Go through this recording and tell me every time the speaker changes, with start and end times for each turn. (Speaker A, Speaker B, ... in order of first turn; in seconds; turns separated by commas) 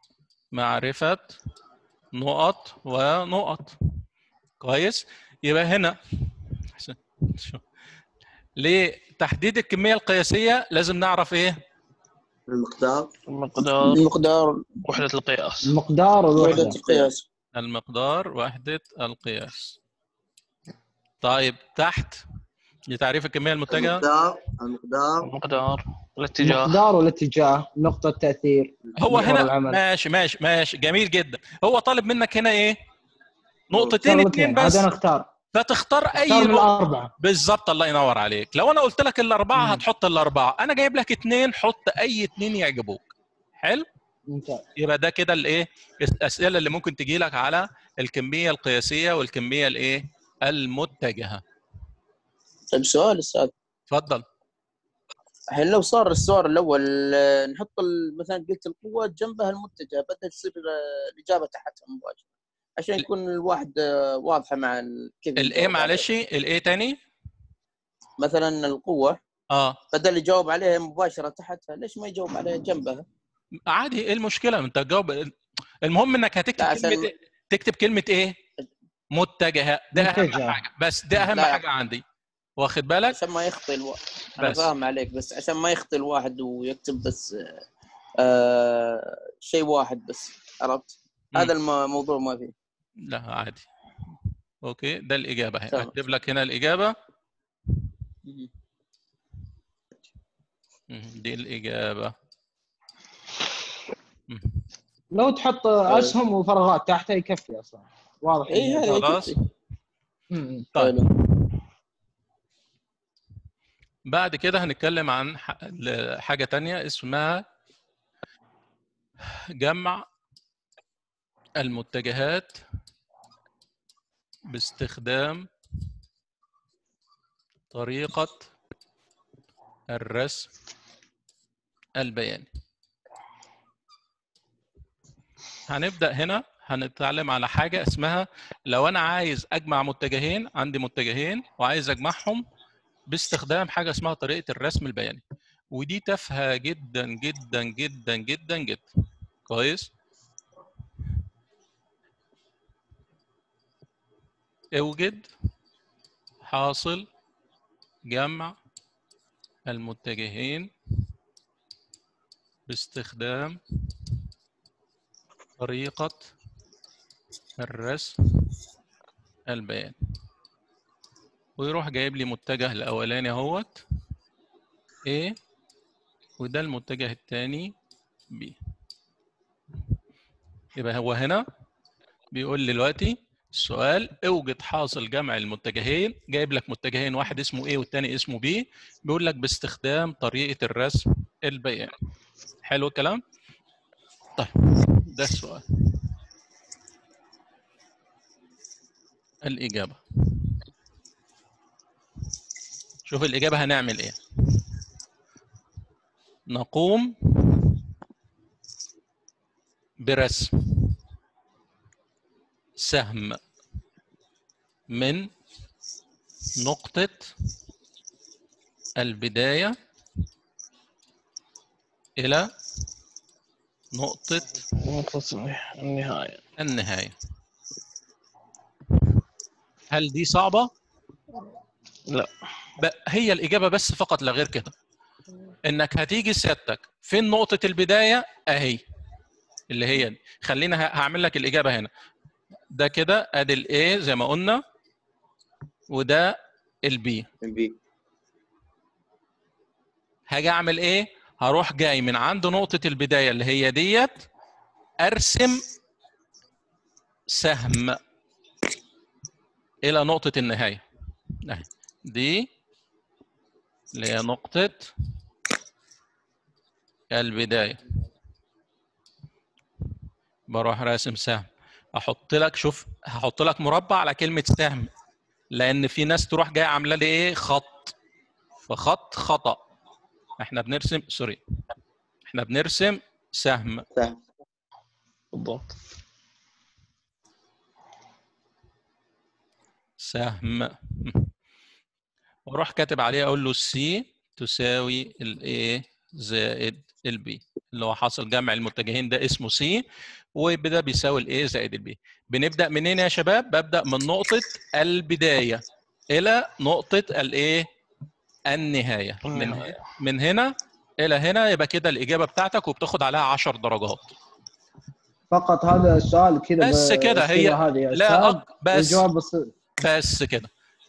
Speaker A: 0.5-1.4, Speaker A: 2.1-3.8, Speaker A: 4.6-7.6, Speaker A: 8.6-11.6, Speaker B: 12.5-13.1, Speaker C: 13.3-14.1, Speaker D: 13.8-14.8, Speaker C: 14.8-15.7, Speaker E: 15.7-16.8, Speaker D: 16.4-17.2, Speaker A: 17.6-19.8, Speaker A: 21.2-22.2, Speaker A: 22.9-24.0, Speaker B: 23.7-25.3, Speaker C: 25.2-26.8, Speaker E: 26.4-29.8, Speaker A: 29.0-32.8, Speaker A: 33.7-34.9, Speaker E: 34.0-35.3, Speaker A: 35.5-43.1, Speaker E: 36.2-37.1, Speaker E: 39.6-39.8, Speaker E: 44.3-44.6, Speaker A: 44.8-51.4, Speaker D: 52.7-53.5, Speaker A: 53.9-54.2, Speaker D: 55.5-62.2, Speaker D: 62.8-66.0, Speaker A: 65.4-67.0, Speaker D: 68.2-69.2, Speaker A: 69.5-69.8, Speaker D: 69.9-73.0, Speaker A: 73.7-75.3, Speaker A: 75.8-78.3, Speaker D: 76.6-77.1, Speaker A: 79.1-82.0, Speaker E: 80.0-80.6, Speaker D: 81.2-81.6, Speaker A: 82.6-83.2, Speaker D: 83.1-87.6, Speaker A: 84.4-84.7, Speaker D: 88.2-92.5, Speaker A: 93.1-93.7, Speaker A: 94.6-97.0, Speaker A: 100.9-102.2, Speaker A: 104.3-104.6, Speaker E: 105.1-109.0, Speaker D: 108.5-109.4, Speaker A: 108.9-109.3, Speaker E: 110.3-110.7, Speaker A: 110.8-111.5, Speaker D: 110.8-111.1, Speaker A: 114.1-117.4, Speaker A: 119.6-120.0, Speaker A: 121.6-122.6, Speaker A: 124.5-125.5, Speaker A: 127.7-128.5, Speaker A: 129.9-130.5, Speaker A: 132.0-132.5, Speaker A: 135.7-142.4, Speaker A: 143.1-145.2, Speaker A: 145.7-148.9, Speaker A: 149.5-149.9, Speaker A: 154.7-155.3, Speaker A: 156.5-157.1, Speaker A: 158.1-158.6, Speaker A: 159.7-160.7, Speaker A: 162.7-163.6, Speaker A: 165.6-166.3, Speaker A: 167.6-168.5, Speaker A: 169.5-170.0, Speaker A: 171.6-173.8, Speaker A: 175.0-175.4, Speaker A: 176.4-177.7, Speaker A: 178.3-178.6, Speaker A: 180.8-181.4, Speaker A: 182.3-191.9, Speaker A: 192.7-193.2, Speaker A: 194.4-196.0, Speaker A: 199.4-200.6, Speaker A: 203.1-204.2, Speaker A: 206.5-207.7, Speaker A: 210.0-210.9, Speaker A: 212.8-213.4, Speaker A: 214.9-215.3, Speaker A: 216.6-217.3, Speaker A: 219.0-219.8, Speaker A: 222.2-222.5, Speaker A: 223.9-224.6, Speaker C: 224.8-226.4, Speaker A: 226.6-227.1, Speaker A: 229.9-230.7, Speaker A: 232.8-234.7, Speaker A: 235.7-238.8, Speaker A: 239.7-241.9, Speaker A: 242.7-244.6, Speaker A: 245.9-247.3, Speaker B: 247.4-247.7, Speaker A: 250.3-254.2, Speaker A: 255.0-255.6, Speaker A: 257.3-258.0, Speaker A: 259.8-260.8, Speaker A: 261.4-262.5, Speaker A: 263.9-264.9, Speaker A: 267.1-267.8, Speaker A: 270.5-274.9, Speaker A: 275.5-277.9, Speaker A: 278.7-279.6, Speaker A: 280.4-281.4, Speaker A: 282.3-283.9, Speaker B: 283.9-284.2, Speaker C: 285.3-285.8, Speaker A: 290.0-291.3, Speaker A: 292.5-299.8, Speaker A: 300.4-307.7, Speaker A: 308.5-314.1, Speaker C: 309.3-309.8, Speaker E: 315.3-319.5, Speaker A: 316.6-319.0, Speaker A: 319.8-320.5